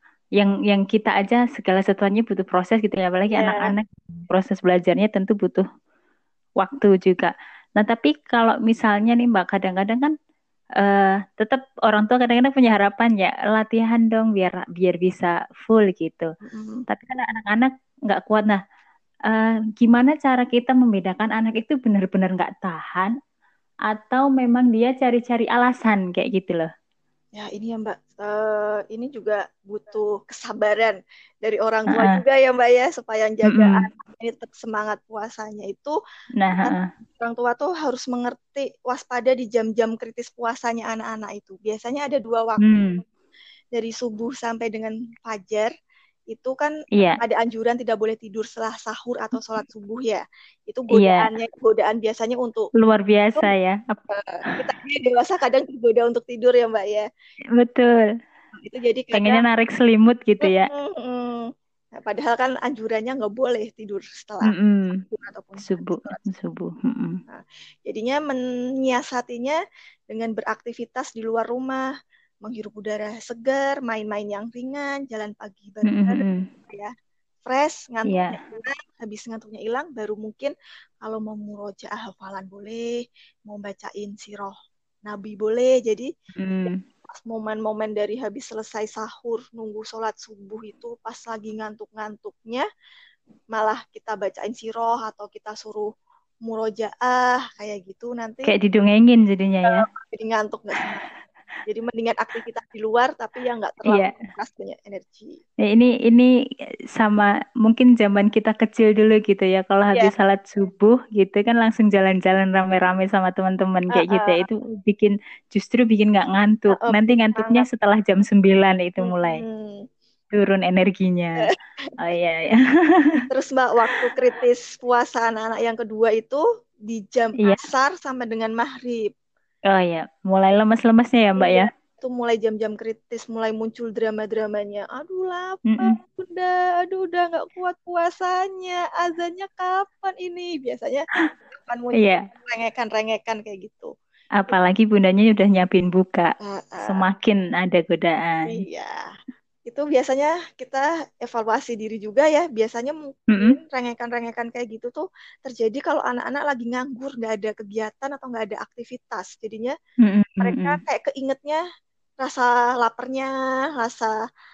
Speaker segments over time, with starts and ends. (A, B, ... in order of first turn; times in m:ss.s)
0:00.4-0:05.6 A
0:03.3-0:03.7 B
0:06.6-0:10.1 A
0:10.8-0:16.3 A
0:16.4-0:16.8 B
0:16.9-0:18.6 A
0:19.3-0:23.1 A
0:23.9-0:26.7 A
0:27.4-0:36.0 B
0:31.9-0:32.2 A
0:33.5-0:33.8 A
0:36.4-0:36.8 A
0:36.6-0:43.0 B
0:42.6-0:42.9 A
0:43.7-0:45.7 B
0:46.3-0:52.7 B
0:50.9-0:51.3 A
0:52.8-0:54.0 A
0:54.1-0:57.1 B
0:57.5-0:58.1 A
0:58.6-0:59.4 B
0:59.1-1:00.7 A
1:00.4-1:06.2 B
1:04.4-1:05.0 A
1:05.6-1:07.2 A
1:07.3-1:09.6 B
1:10.1-1:11.8 B
1:12.4-1:16.9 B
1:15.9-1:16.4 A
1:17.4-1:22.9 B
1:18.1-1:18.4 A
1:23.5-1:24.5 B
1:25.0-1:26.1 B
1:26.4-1:26.7 A
1:26.6-1:32.7 B
1:33.5-1:35.9 B
1:36.4-1:38.5 B
1:38.5-1:39.8 A
1:39.7-1:41.0 B
1:41.6-1:45.4 B
1:43.8-1:44.1 A
1:45.6-1:46.3 A
1:47.0-1:59.4 A
1:53.9-1:54.4 B
1:56.8-1:57.6 B
1:59.0-1:59.9 B
2:00.3-2:01.5 A
2:01.4-2:01.9 B
2:02.0-2:03.2 A
2:03.3-2:09.1 B
2:09.7-2:11.7 A
2:11.4-2:21.1 B
2:15.7-2:15.9 A
2:21.6-2:23.9 B
2:24.4-2:28.6 A
2:26.4-2:27.0 B
2:28.5-2:29.0 B
2:29.6-2:39.7 B
2:40.0-2:40.8 A
2:40.4-2:41.6 B
2:42.2-2:44.1 B